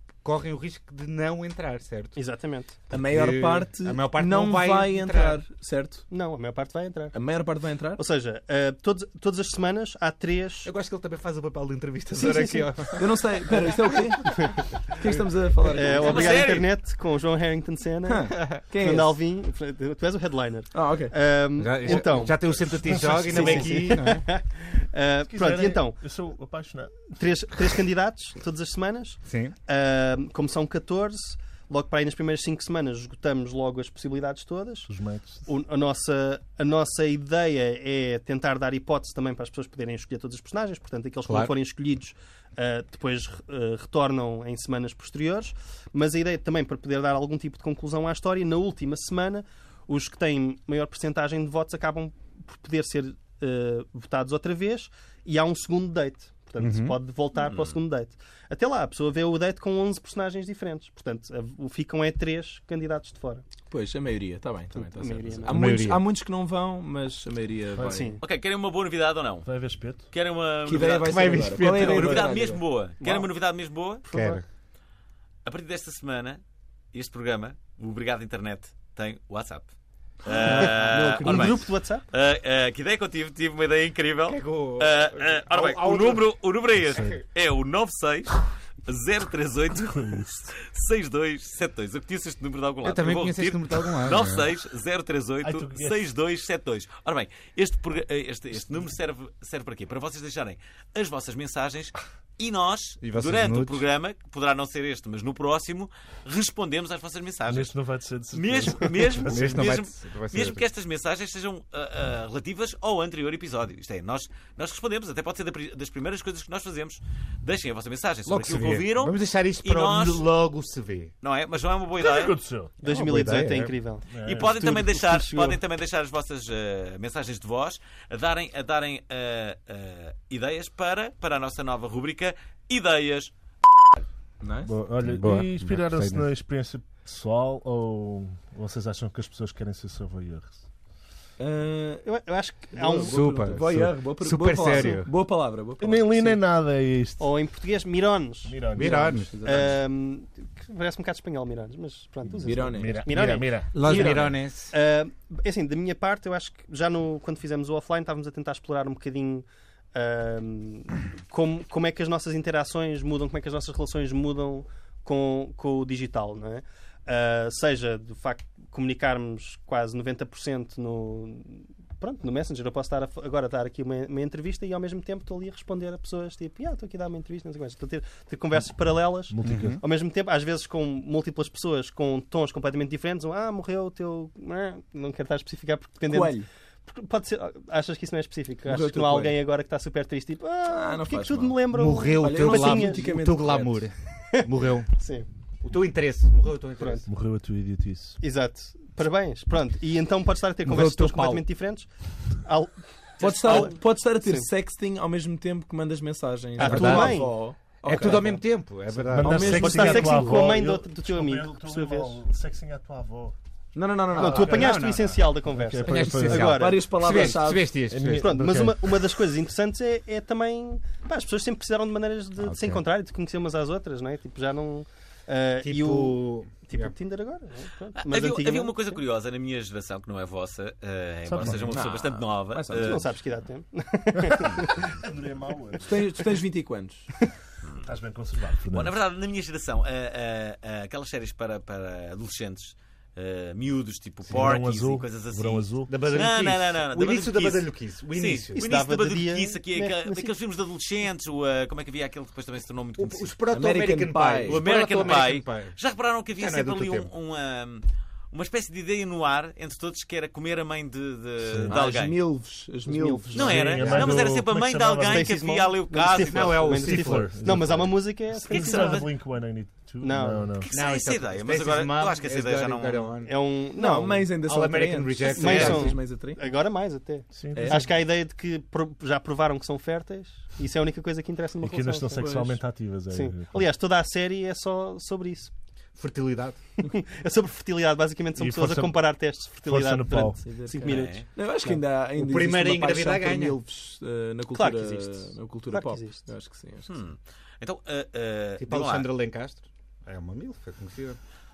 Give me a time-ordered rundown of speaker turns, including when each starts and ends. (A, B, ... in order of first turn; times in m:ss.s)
0:00.2-0:02.2 A
0:02.2-0:02.8 B
0:02.9-0:05.4 A
0:02.9-0:06.1 C
0:06.1-0:07.2 B
0:07.1-0:08.0 C
0:08.0-0:10.7 B
0:10.6-0:13.1 A
0:12.2-0:12.7 B
0:12.9-0:14.3 C
0:15.0-0:16.4 C
0:15.7-0:26.0 B
0:16.0-0:16.7 D
0:18.0-0:19.2 C
0:20.7-0:21.1 C
0:21.6-0:24.2 A
0:22.6-0:23.9 E
0:25.3-0:27.2 E
0:27.1-0:34.9 B
0:29.3-0:29.6 A
0:34.9-0:35.4 E
0:35.5-1:03.4 B
0:41.3-0:41.5 A
0:56.6-0:57.0 A
0:57.4-0:57.8 D
1:03.7-1:08.1 C
1:04.8-1:05.6 B
1:05.5-1:06.0 A
1:07.8-1:08.1 E
1:07.8-1:08.2 B
1:08.2-1:14.0 D
1:09.4-1:10.1 E
1:10.6-1:12.6 C
1:11.0-1:12.4 A
1:13.0-1:13.3 B
1:14.0-1:14.4 B
1:14.1-1:14.4 A
1:15.4-1:16.4 D
1:16.9-1:19.7 D
1:20.2-1:47.7 D
1:20.3-1:22.0 B
1:24.3-1:26.3 A
1:29.9-1:30.3 E
1:32.8-1:34.5 A
1:35.4-1:36.0 E
1:43.0-1:43.8 A
1:47.5-1:49.6 E
1:48.3-2:00.3 D
1:49.3-1:50.6 A
1:58.3-2:01.1 A
2:01.2-2:02.4 D
2:02.0-2:03.6 E
2:02.8-2:05.6 B
2:02.9-2:03.7 A
2:04.1-2:04.6 E
2:04.2-2:13.3 D
2:14.4-2:14.8 C
2:14.7-2:20.6 E
2:15.0-2:16.3 A
2:21.4-2:22.1 C
2:22.0-2:23.5 B
2:22.7-2:26.4 C
2:23.1-2:25.1 A
2:23.6-2:23.9 E
2:25.8-2:27.3 E
2:27.2-2:28.6 B
2:28.5-2:29.3 E
2:28.8-2:29.3 A
2:28.8-2:29.8 C
2:29.4-3:13.0 B
2:32.4-2:33.8 E
2:32.4-2:33.2 C
2:33.7-2:34.7 A
2:33.8-2:34.3 C
2:59.3-2:59.8 E
2:59.4-2:59.8 A
3:06.1-3:06.5 C
3:08.7-3:09.4 C
3:10.7-3:11.6 C
3:11.7-3:14.9 A
3:12.1-3:13.8 C
3:14.4-3:15.3 B
3:15.6-3:17.1 A
3:16.8-3:17.1 B
3:17.1-3:18.2 E
3:18.2-3:21.9 B
3:20.6-3:21.4 A
3:22.4-3:24.5 B
3:23.2-3:28.4 C
3:26.6-3:27.2 A
3:26.6-3:27.3 B
3:27.8-3:30.1 A
3:29.1-3:33.4 E
3:29.2-3:30.4 C
3:29.5-3:32.2 B
3:33.7-3:34.7 C
3:34.2-3:37.4 B
3:34.2-3:34.9 E
3:34.4-3:35.3 A
3:35.5-3:36.6 E
3:35.8-3:38.6 A
3:36.3-3:37.7 C
3:37.9-3:38.8 E
3:38.2-3:49.0 B
3:42.4-3:42.8 A
3:45.6-3:46.9 A
3:48.0-3:53.1 D
3:51.3-3:51.8 E
3:51.4-3:53.1 C
3:52.8-3:55.0 B
3:54.3-3:56.0 E
3:55.8-3:57.1 C
3:57.8-3:59.0 E
3:58.7-4:13.3 D
4:04.3-4:06.2 E
4:05.9-4:08.7 A
4:08.6-4:10.3 B
4:13.0-4:15.8 A
4:13.5-4:14.7 C
4:14.5-4:22.2 D
4:16.4-4:17.1 A
4:21.4-4:21.8 E
4:21.7-4:23.7 C
4:22.9-4:23.6 B
4:23.3-4:26.8 D
4:23.3-4:25.3 E
4:23.8-4:24.3 A
4:25.1-4:29.2 B
4:26.2-4:27.8 A
4:26.7-4:30.7 E
4:28.5-4:28.9 D
4:30.0-4:30.5 B
4:30.6-4:33.1 D
4:30.7-4:33.3 A
4:33.2-4:34.3 B
4:33.8-4:36.4 C
4:34.4-4:35.9 A
4:35.4-4:42.3 B
4:35.4-4:35.8 D
4:37.3-4:37.9 E
4:37.5-4:37.9 C
4:41.6-4:43.6 E
4:42.2-4:42.6 C
4:43.1-4:45.5 B
4:46.0-4:46.6 A
4:46.8-4:51.3 B
4:48.4-4:49.0 E
4:49.6-4:50.5 E
4:50.4-4:56.9 C
4:50.8-4:51.3 D
4:52.2-4:53.6 A
4:54.6-4:56.3 B
4:56.9-4:59.1 D
4:58.6-5:01.2 A